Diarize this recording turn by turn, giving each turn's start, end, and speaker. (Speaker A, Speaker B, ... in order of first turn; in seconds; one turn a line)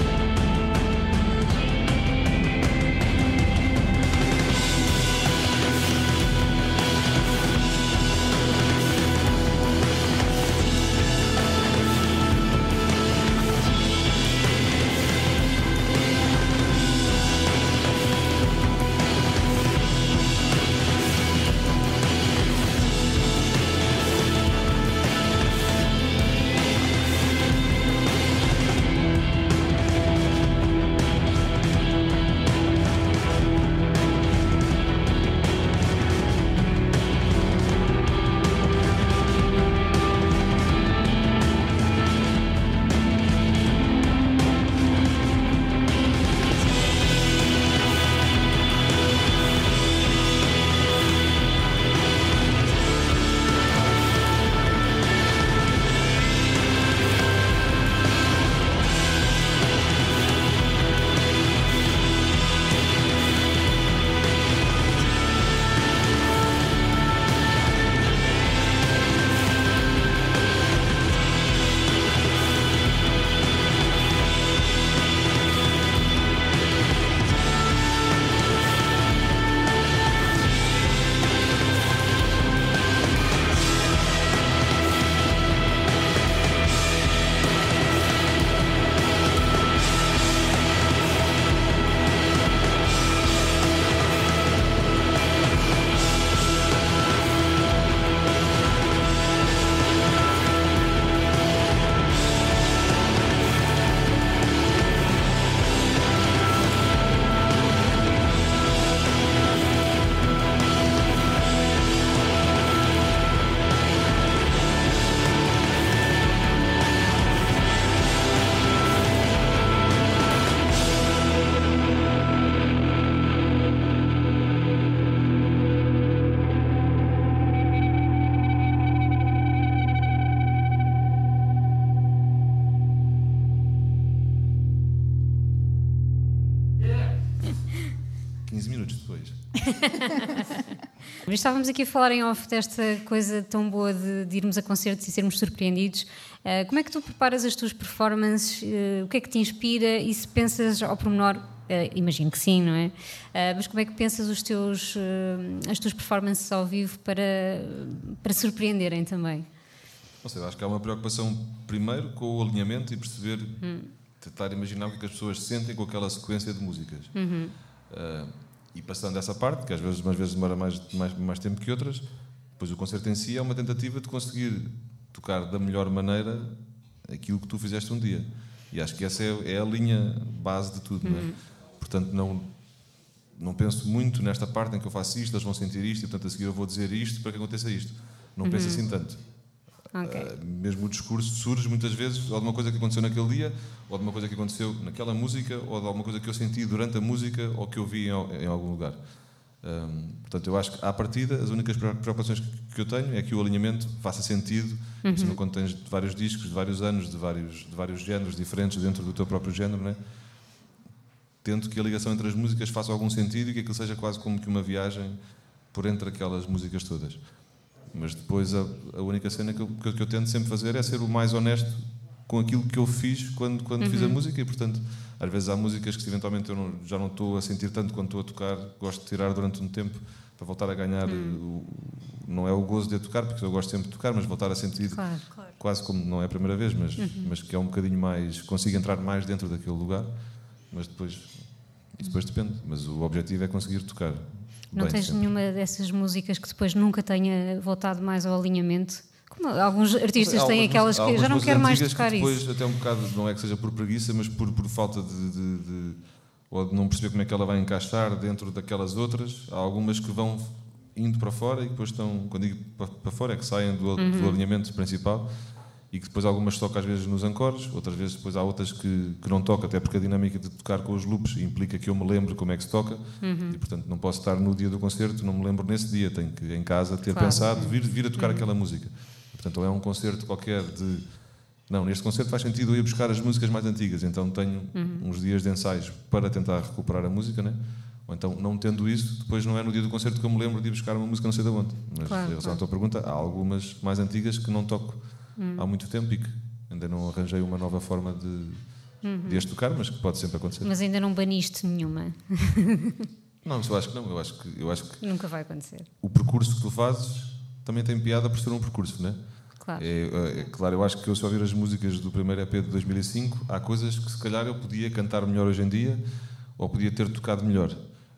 Speaker A: 138.4-139.5
Speaker B: 139.7-140.6
Speaker B: 141.2-159.5
Speaker A: 160.2-163.6
Speaker B: 163.6-163.9
Speaker A: 164.2-167.1
Speaker B: 167.1-167.6
Speaker A: 167.9-172.1
Speaker A: 172.6-182.5
Speaker B: 181.0-181.4
Speaker A: 183.3-189.2
Speaker B: 188.4-188.8
Speaker B: 189.9-190.3
Speaker A: 190.0-210.0
Speaker B: 205.0-205.4
Speaker A: 211.4-215.2
Speaker A: 215.7-217.2
Speaker A: 217.8-235.0
Speaker B: 223.8-224.2
Speaker B: 231.1-231.4
Speaker B: 234.8-235.3
Speaker A: 235.6-240.1
Speaker B: 237.0-237.3
Speaker A: 240.7-245.3
Speaker B: 244.7-252.4
Speaker A: 250.2-265.3
Speaker B: 264.0-264.4
Speaker A: 265.9-300.7
Speaker B: 273.2-273.6
Speaker B: 277.1-278.5
Speaker B: 284.8-285.1
Speaker B: 292.0-292.6
Speaker B: 295.4-295.6
Speaker B: 299.0-299.5
Speaker B: 300.6-303.1
Speaker A: 303.4-305.0
Speaker B: 305.0-305.9
Speaker A: 306.0-316.0
Speaker B: 309.6-309.9
Speaker A: 316.6-317.8